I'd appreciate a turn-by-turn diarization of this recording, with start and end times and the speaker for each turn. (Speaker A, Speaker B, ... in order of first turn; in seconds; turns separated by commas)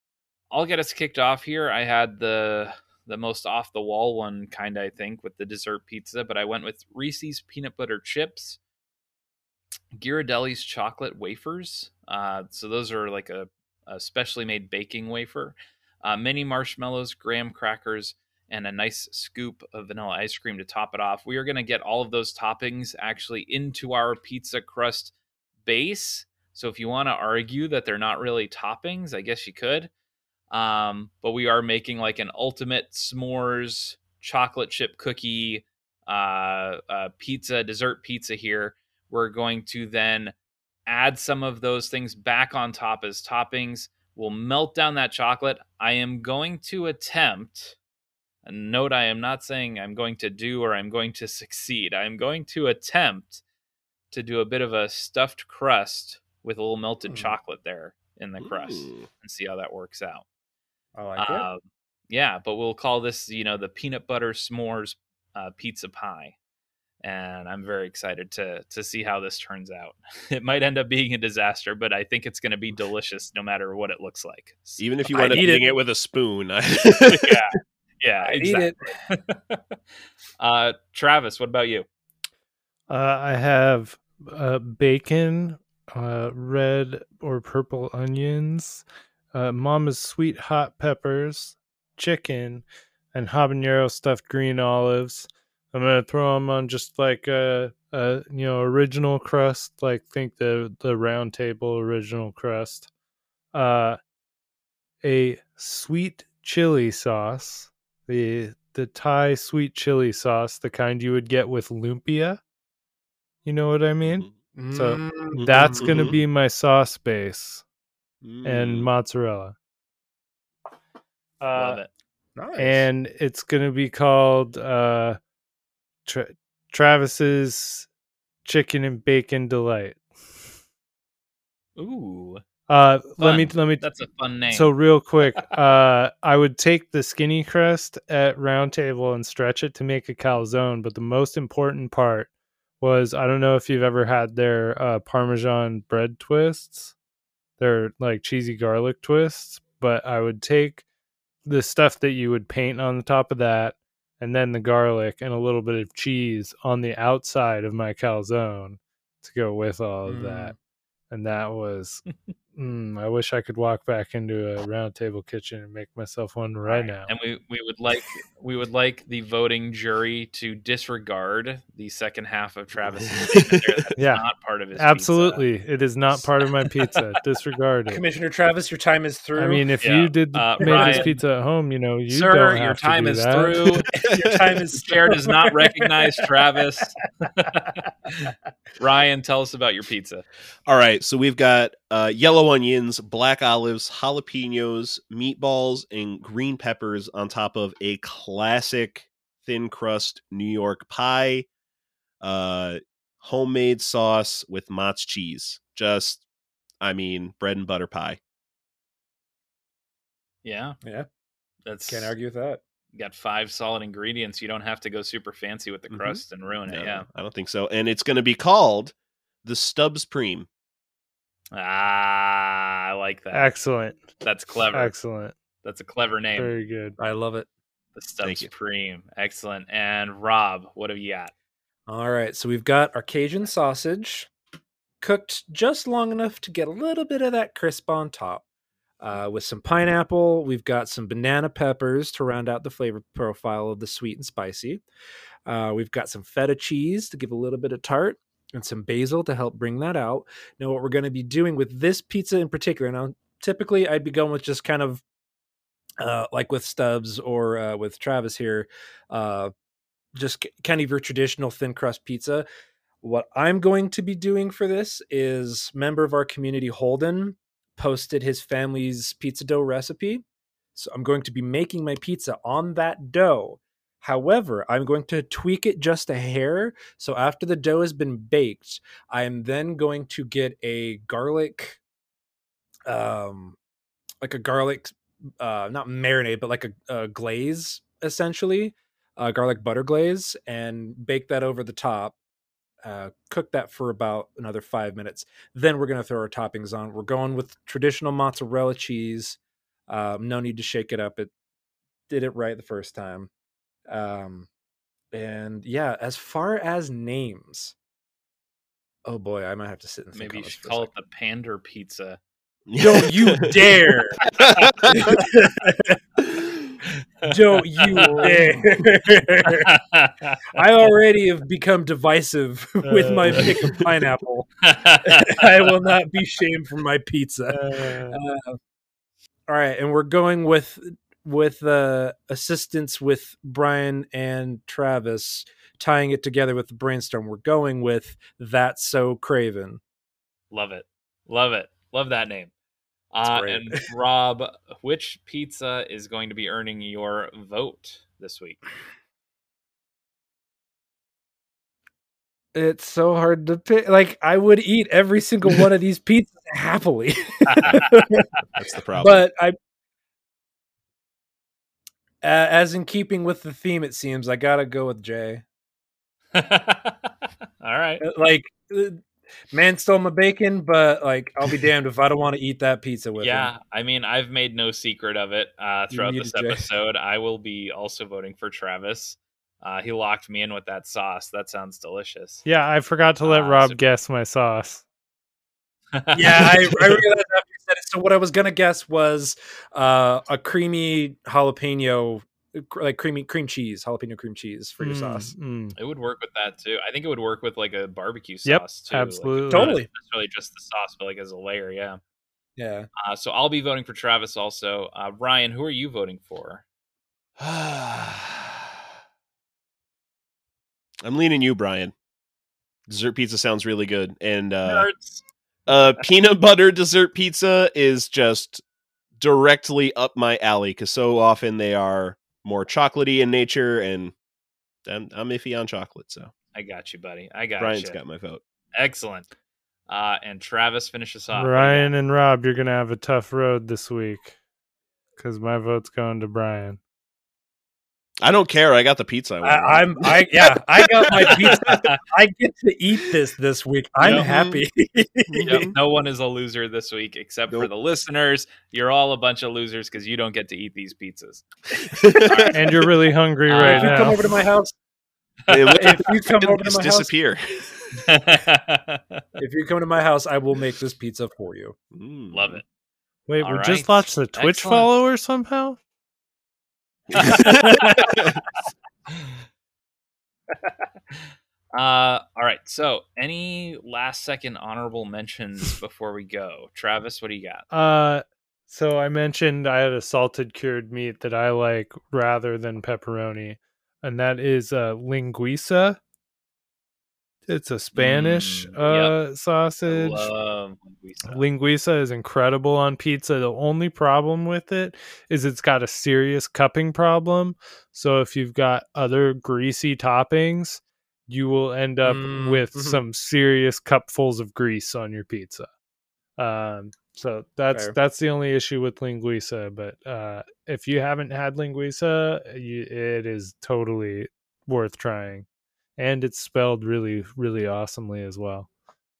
Speaker A: 0.5-8.6, Speaker A: 9.9-25.1, Speaker A: 25.6-29.9, Speaker A: 30.5-40.4, Speaker A: 40.9-47.8, Speaker A: 48.4-53.4, Speaker A: 54.1-60.2, Speaker B: 57.1-57.4, Speaker C: 58.4-59.1, Speaker B: 61.0-61.5, Speaker A: 61.2-66.4, Speaker A: 67.0-75.5, Speaker C: 74.8-77.4, Speaker B: 75.1-75.7, Speaker A: 77.1-79.8, Speaker B: 78.2-79.0, Speaker A: 80.4-81.9, Speaker D: 82.9-102.9, Speaker D: 103.5-104.0, Speaker D: 105.0-112.4, Speaker D: 113.5-117.6, Speaker C: 114.0-114.3, Speaker B: 114.5-116.1, Speaker C: 115.4-116.2, Speaker C: 118.2-118.9, Speaker D: 118.4-119.5, Speaker D: 121.4-121.8, Speaker A: 121.5-121.9, Speaker B: 122.4-122.9, Speaker D: 122.6-125.2, Speaker D: 126.1-127.9, Speaker D: 128.4-130.0, Speaker A: 131.8-132.4, Speaker D: 132.7-133.8, Speaker A: 133.2-134.7, Speaker D: 134.5-146.9, Speaker D: 147.6-150.8, Speaker D: 151.4-160.5, Speaker B: 160.1-160.6, Speaker D: 161.1-167.1, Speaker A: 166.7-175.4, Speaker C: 173.2-173.6, Speaker D: 174.0-178.0, Speaker B: 177.9-179.7, Speaker D: 179.4-183.7, Speaker A: 179.8-181.2, Speaker B: 180.6-181.2, Speaker A: 182.1-183.9, Speaker B: 183.9-185.9, Speaker C: 184.1-184.4, Speaker A: 184.8-190.2, Speaker C: 190.7-201.5, Speaker C: 202.2-206.2, Speaker C: 206.8-208.2, Speaker A: 210.4-210.8, Speaker A: 211.7-212.1, Speaker B: 211.9-212.6, Speaker A: 212.9-217.1, Speaker C: 215.9-220.5, Speaker A: 221.5-223.5, Speaker D: 223.3-224.1, Speaker A: 224.2-224.9, Speaker D: 224.7-225.3, Speaker A: 225.6-226.5, Speaker D: 226.4-227.0, Speaker B: 227.0-227.5, Speaker A: 228.0-231.3, Speaker C: 228.2-228.5, Speaker B: 231.9-234.3, Speaker B: 235.0-238.4, Speaker B: 239.0-244.8, Speaker B: 245.5-255.0, Speaker B: 256.0-259.5, Speaker B: 260.2-262.5, Speaker B: 263.0-270.2, Speaker B: 270.8-281.8, Speaker B: 282.9-283.6, Speaker B: 284.2-292.1, Speaker B: 292.8-301.3, Speaker B: 302.1-303.3, Speaker B: 303.9-304.5, Speaker B: 305.1-307.8, Speaker B: 309.1-310.9, Speaker A: 310.1-312.2, Speaker C: 312.7-313.5, Speaker B: 312.8-314.2, Speaker C: 314.4-314.9, Speaker A: 314.4-314.7, Speaker B: 314.9-316.0, Speaker B: 317.2-319.7, Speaker A: 317.6-318.4, Speaker D: 318.0-318.5, Speaker A: 319.6-320.6, Speaker B: 320.6-324.5, Speaker D: 322.8-323.5, Speaker A: 324.6-325.4, Speaker B: 325.1-328.6, Speaker D: 327.6-328.0, Speaker B: 329.5-339.8, Speaker A: 340.5-342.5, Speaker A: 343.1-348.7, Speaker B: 343.3-343.8, Speaker B: 352.5-358.3, Speaker A: 357.5-357.8, Speaker C: 358.6-359.2, Speaker B: 359.0-359.6, Speaker B: 362.2-365.4, Speaker A: 366.3-368.0, Speaker B: 368.0-373.5, Speaker A: 373.2-382.4, Speaker B: 375.9-376.7, Speaker D: 382.4-384.8, Speaker A: 383.2-383.8, Speaker A: 385.9-387.0, Speaker B: 386.1-395.3, Speaker D: 394.8-395.8, Speaker A: 395.8-402.0, Speaker D: 398.5-399.8, Speaker B: 399.5-399.9, Speaker B: 402.6-402.9, Speaker A: 403.0-406.6, Speaker C: 407.4-408.7, Speaker C: 411.0-411.9, Speaker C: 412.9-414.9, Speaker A: 414.6-416.0, Speaker C: 415.7-418.6, Speaker C: 419.2-424.1, Speaker C: 424.9-426.3, Speaker A: 426.5-428.0, Speaker C: 427.6-428.4, Speaker A: 428.8-429.3, Speaker A: 429.9-431.9, Speaker D: 431.4-434.3, Speaker D: 435.2-436.8, Speaker C: 438.2-440.0, Speaker B: 439.4-445.5, Speaker A: 441.3-442.0, Speaker A: 444.0-444.2, Speaker C: 444.1-444.6, Speaker C: 445.3-445.7, Speaker A: 445.5-451.5, Speaker C: 452.0-452.5, Speaker A: 452.2-452.9, Speaker D: 452.5-454.2, Speaker A: 453.5-454.2, Speaker B: 453.6-454.8, Speaker A: 455.5-455.8, Speaker C: 455.5-458.0, Speaker B: 455.8-457.1, Speaker A: 458.0-459.2, Speaker B: 459.4-461.8, Speaker C: 461.9-462.6, Speaker A: 462.3-462.6, Speaker D: 463.3-465.8, Speaker A: 463.4-464.9, Speaker C: 467.1-468.4, Speaker A: 467.2-468.1, Speaker B: 467.2-467.9, Speaker A: 471.8-477.6, Speaker D: 477.7-486.0, Speaker D: 487.5-490.3, Speaker A: 487.9-489.2, Speaker A: 489.9-491.4, Speaker D: 491.3-505.7, Speaker B: 502.0-503.0, Speaker D: 506.4-515.5, Speaker B: 507.7-508.0, Speaker D: 516.0-518.7